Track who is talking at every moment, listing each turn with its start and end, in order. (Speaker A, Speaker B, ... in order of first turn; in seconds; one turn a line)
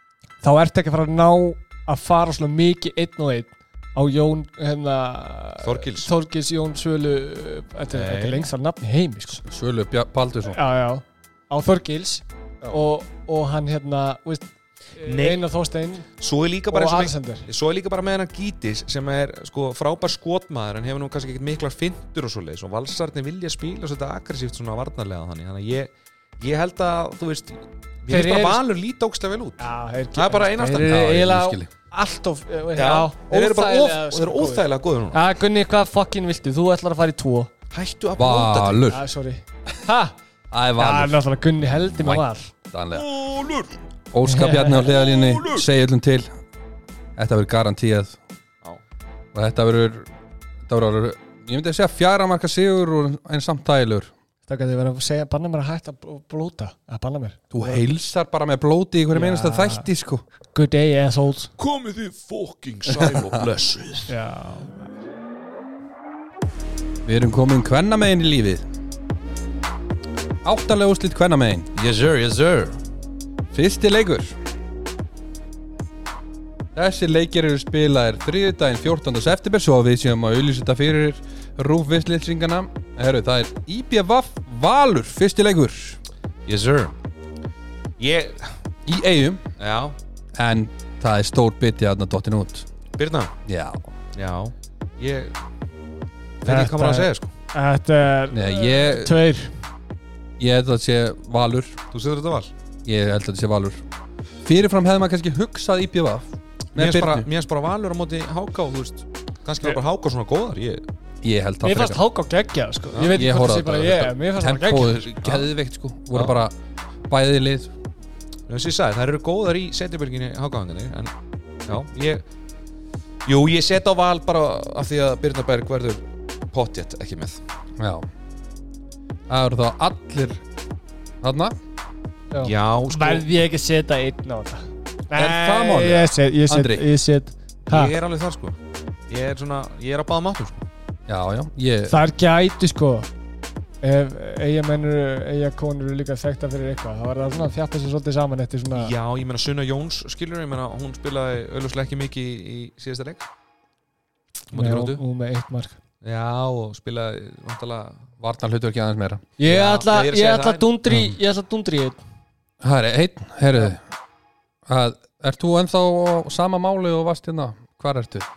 Speaker A: 0.4-9.4
Speaker B: 5.6-6.1
Speaker B: 7.9-8.5
Speaker C: 9.3-10.6
Speaker A: 10.5-16.1
Speaker B: 15.0-15.4
Speaker B: 16.2-29.6
Speaker A: 16.7-17.5
Speaker A: 28.1-28.6
Speaker A: 29.6-37.5
Speaker B: 30.1-31.1
Speaker C: 30.7-31.7
Speaker B: 32.8-35.2
Speaker B: 37.7-39.0
Speaker C: 38.1-39.0
Speaker A: 38.9-40.1
Speaker C: 40.5-41.2
Speaker A: 40.8-42.5
Speaker C: 41.8-43.1
Speaker B: 42.9-43.7
Speaker C: 44.1-46.4
Speaker A: 44.2-44.9
Speaker B: 44.8-45.6
Speaker C: 47.2-48.2
Speaker C: 49.3-50.1
Speaker C: 50.7-54.1
Speaker A: 54.5-57.8
Speaker C: 57.5-60.2
Speaker A: 59.1-59.9
Speaker A: 60.5-61.5
Speaker B: 61.6-64.1
Speaker C: 63.0-63.4
Speaker A: 64.1-65.0
Speaker C: 67.0-68.6
Speaker C: 70.4-71.7
Speaker B: 71.7-72.8
Speaker C: 73.5-74.4
Speaker C: 76.7-86.0
Speaker B: 86.5-86.9
Speaker B: 88.0-88.5
Speaker C: 88.8-89.4
Speaker B: 89.6-89.9
Speaker C: 90.3-92.7
Speaker B: 93.0-93.3
Speaker C: 93.5-93.9
Speaker B: 94.1-95.3
Speaker B: 96.4-97.3
Speaker A: 96.4-99.5
Speaker C: 98.3-99.2
Speaker C: 100.4-101.8
Speaker B: 101.9-102.5
Speaker C: 102.8-103.8
Speaker C: 104.4-107.3
Speaker B: 106.7-110.8
Speaker C: 111.2-112.0
Speaker A: 111.6-115.1
Speaker C: 113.0-116.5
Speaker B: 115.2-115.5
Speaker B: 116.1-116.4
Speaker C: 117.1-117.7
Speaker B: 118.5-121.1
Speaker B: 121.7-122.2
Speaker B: 123.2-127.4
Speaker C: 127.8-128.1
Speaker C: 129.3-130.4
Speaker C: 131.2-131.5
Speaker A: 132.3-137.9
Speaker B: 132.4-133.2
Speaker C: 135.1-136.8
Speaker B: 137.7-138.6
Speaker B: 139.1-140.6
Speaker C: 141.1-141.9
Speaker A: 141.9-143.1
Speaker A: 143.8-148.9
Speaker B: 148.7-153.2
Speaker B: 154.5-155.0
Speaker A: 154.5-155.8
Speaker B: 156.0-158.1
Speaker C: 158.2-159.3
Speaker A: 159.4-162.0
Speaker B: 159.4-160.7
Speaker C: 160.9-161.2
Speaker C: 162.6-163.8
Speaker C: 164.7-168.3